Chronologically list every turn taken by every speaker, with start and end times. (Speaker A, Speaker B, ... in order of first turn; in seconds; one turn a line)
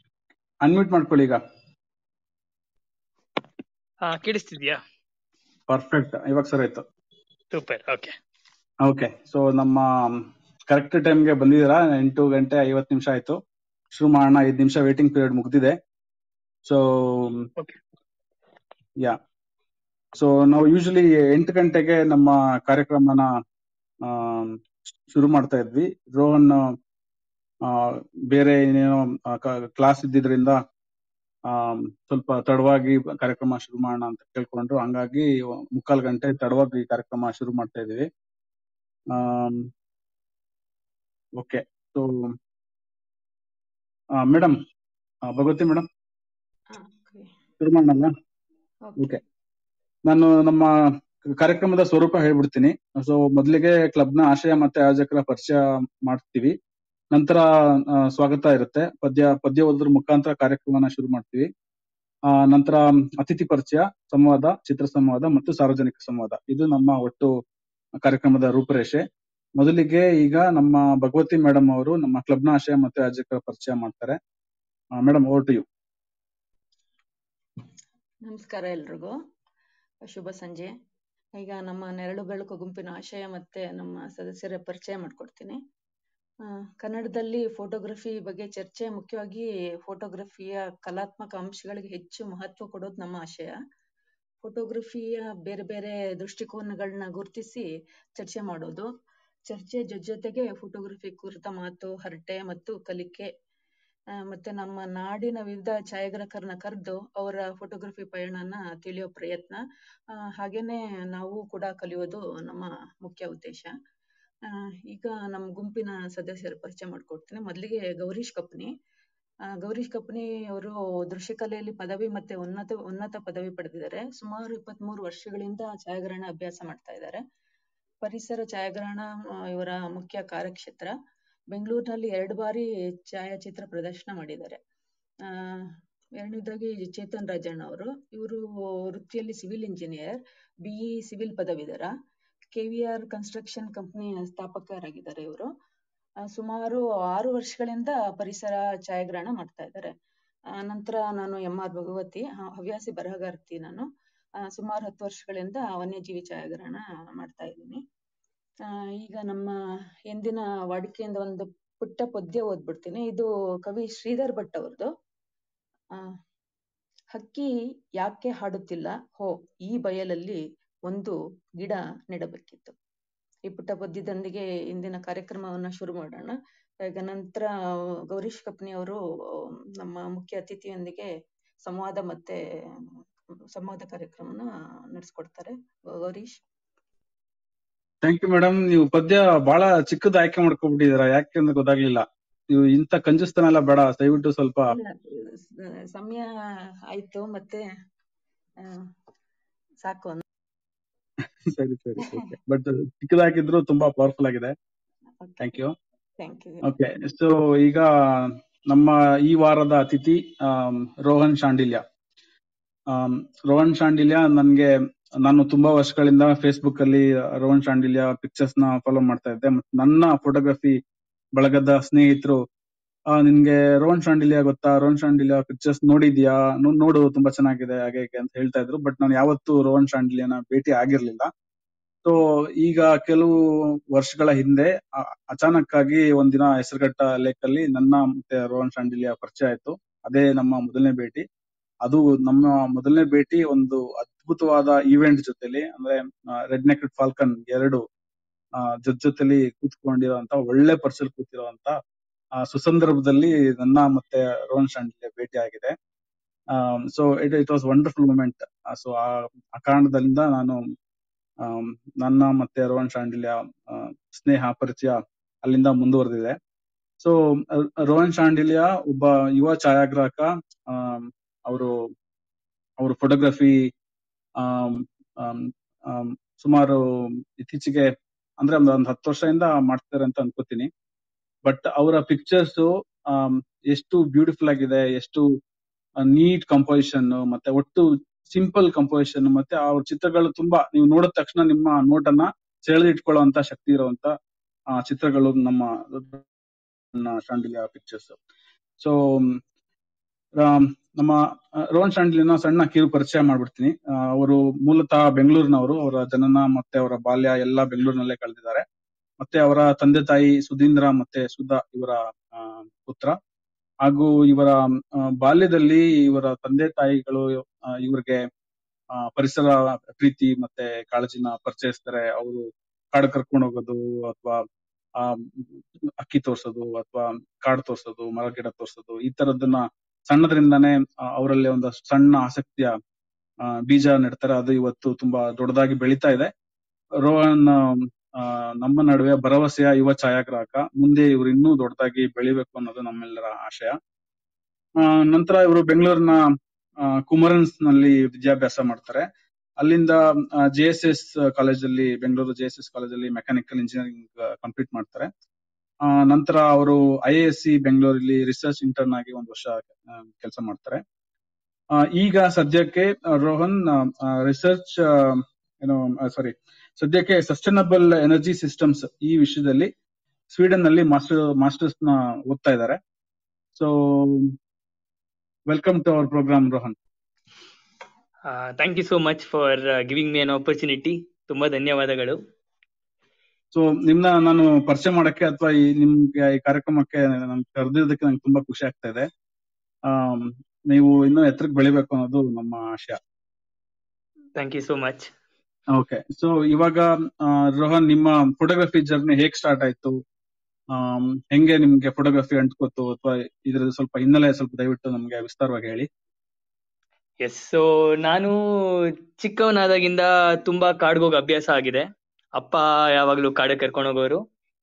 Speaker A: 0.6-1.4
Speaker B: 4.0-4.8
Speaker A: 5.7-6.8
Speaker B: 7.5-8.2
Speaker A: 8.8-13.4
Speaker A: 13.9-15.8
Speaker A: 16.6-17.5
Speaker A: 20.1-23.3
Speaker A: 24.1-24.6
Speaker A: 25.1-26.6
Speaker A: 27.7-30.6
Speaker A: 31.5-38.1
Speaker A: 39.1-39.7
Speaker A: 41.4-42.3
Speaker A: 44.2-44.6
Speaker A: 45.3-45.9
Speaker C: 46.7-47.3
Speaker A: 47.6-48.1
Speaker C: 48.9-49.2
Speaker A: 50.1-50.7
Speaker A: 51.3-56.6
Speaker A: 57.1-61.5
Speaker A: 62.3-67.3
Speaker A: 68.0-69.0
Speaker A: 69.6-74.2
Speaker A: 75.0-75.7
Speaker C: 78.2-79.2
Speaker C: 80.0-80.7
Speaker C: 81.4-85.6
Speaker C: 86.8-93.5
Speaker C: 94.4-97.7
Speaker C: 98.2-98.9
Speaker C: 99.5-103.3
Speaker C: 104.1-109.6
Speaker C: 110.2-113.7
Speaker C: 114.9-118.7
Speaker C: 119.6-127.2
Speaker C: 128.0-130.9
Speaker C: 131.5-134.6
Speaker C: 135.3-141.9
Speaker C: 142.5-145.5
Speaker C: 146.3-149.9
Speaker C: 150.5-153.9
Speaker C: 154.4-157.8
Speaker C: 158.7-159.5
Speaker C: 160.1-164.9
Speaker C: 167.1-172.8
Speaker C: 173.5-177.5
Speaker C: 178.1-181.1
Speaker C: 181.7-182.4
Speaker C: 183.5-186.4
Speaker A: 188.0-194.7
Speaker C: 194.7-196.3
Speaker C: 196.9-197.6
Speaker C: 199.8-200.2
Speaker A: 201.5-204.5
Speaker C: 202.0-202.3
Speaker C: 205.2-205.6
Speaker A: 205.4-205.7
Speaker C: 206.2-206.6
Speaker A: 206.7-211.8
Speaker A: 212.9-214.7
Speaker A: 215.2-220.8
Speaker A: 221.4-222.4
Speaker A: 223.1-231.3
Speaker A: 232.1-233.4
Speaker A: 233.9-234.7
Speaker A: 235.3-241.2
Speaker A: 241.8-247.8
Speaker A: 248.6-251.8
Speaker A: 252.4-255.8
Speaker A: 256.5-260.6
Speaker A: 261.4-266.4
Speaker A: 267.0-271.7
Speaker A: 272.8-273.7
Speaker A: 274.4-276.8
Speaker A: 277.4-280.7
Speaker A: 281.4-285.3
Speaker A: 286.1-294.1
Speaker A: 294.7-296.2
Speaker A: 296.9-298.2
Speaker A: 298.8-299.4
Speaker A: 300.4-301.2
Speaker A: 301.7-308.6
Speaker A: 309.2-313.2
Speaker A: 313.9-318.2
Speaker A: 319.0-324.4
Speaker A: 325.0-325.4
Speaker A: 326.0-332.7
Speaker A: 333.5-336.3
Speaker A: 337.0-343.8
Speaker A: 344.8-346.2
Speaker A: 347.1-349.1
Speaker A: 349.6-355.1
Speaker A: 355.9-360.8
Speaker A: 361.8-369.7
Speaker A: 370.3-372.8
Speaker A: 373.6-374.4
Speaker A: 375.5-376.8
Speaker B: 378.3-382.2
Speaker A: 383.5-389.1
Speaker A: 389.9-393.0
Speaker B: 394.4-395.1
Speaker A: 395.8-400.0
Speaker A: 400.7-405.9
Speaker B: 407.2-414.2